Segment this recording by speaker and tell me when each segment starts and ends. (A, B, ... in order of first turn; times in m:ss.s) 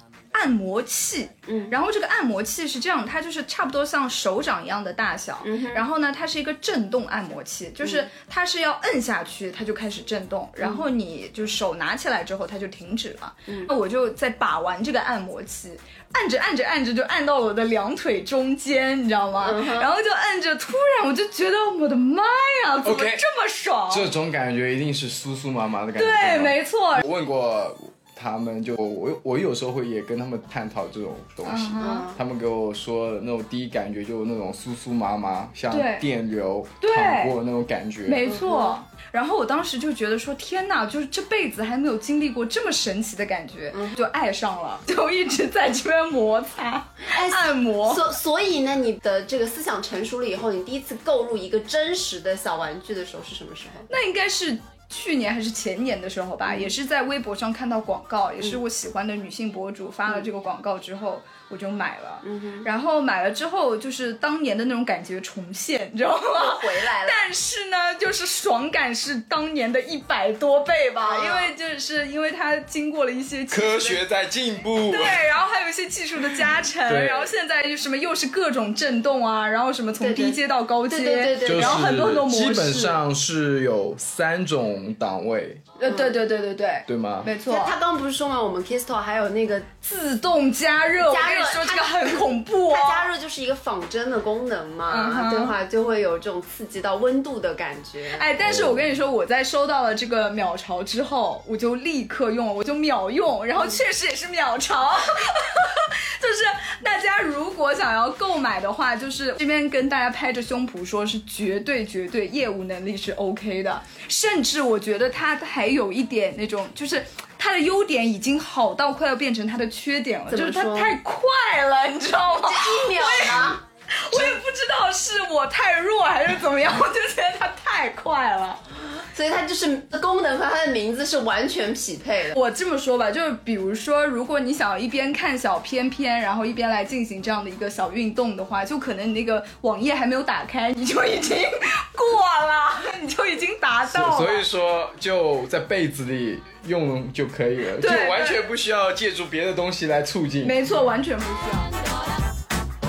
0:00.3-0:24.1 A
0:01.5-0:01.7 B
0:05.4-0:05.8 B
0:10.6-0:10.8 B
0:13.5-0:13.7 B
0:19.4-0:19.9 B
0:22.8-0:23.2 C
0:23.9-0:38.3 C
0:26.0-0:27.0 A
0:31.4-0:32.1 A
0:31.8-0:32.2 B
0:35.7-0:36.1 A
0:36.8-0:37.3 A
0:38.0-0:48.0 A
0:38.2-0:38.8 B
0:47.1-0:53.9 B
0:53.9-1:14.0 A
0:56.5-0:56.7 B
1:02.2-1:02.7 B
1:06.3-1:07.2 B
1:11.0-1:11.5 B
1:13.5-1:15.2 C
1:14.9-1:23.0 A
1:16.8-1:17.3 C
1:20.0-1:21.9 B
1:21.4-1:25.6 C
1:25.8-1:27.8 A
1:25.8-1:26.2 B
1:26.9-1:27.3 C
1:27.4-1:29.7 B
1:29.8-1:33.1 A
1:31.0-1:38.2 B
1:34.9-1:35.6 A
1:38.1-2:08.6 A
1:38.4-1:38.8 C
2:00.3-2:01.0 B
2:02.4-2:03.6 B
2:09.1-2:12.4 B
2:12.3-2:24.5 A
2:23.9-2:30.6 C
2:27.8-2:28.4 A
2:30.4-2:31.7 A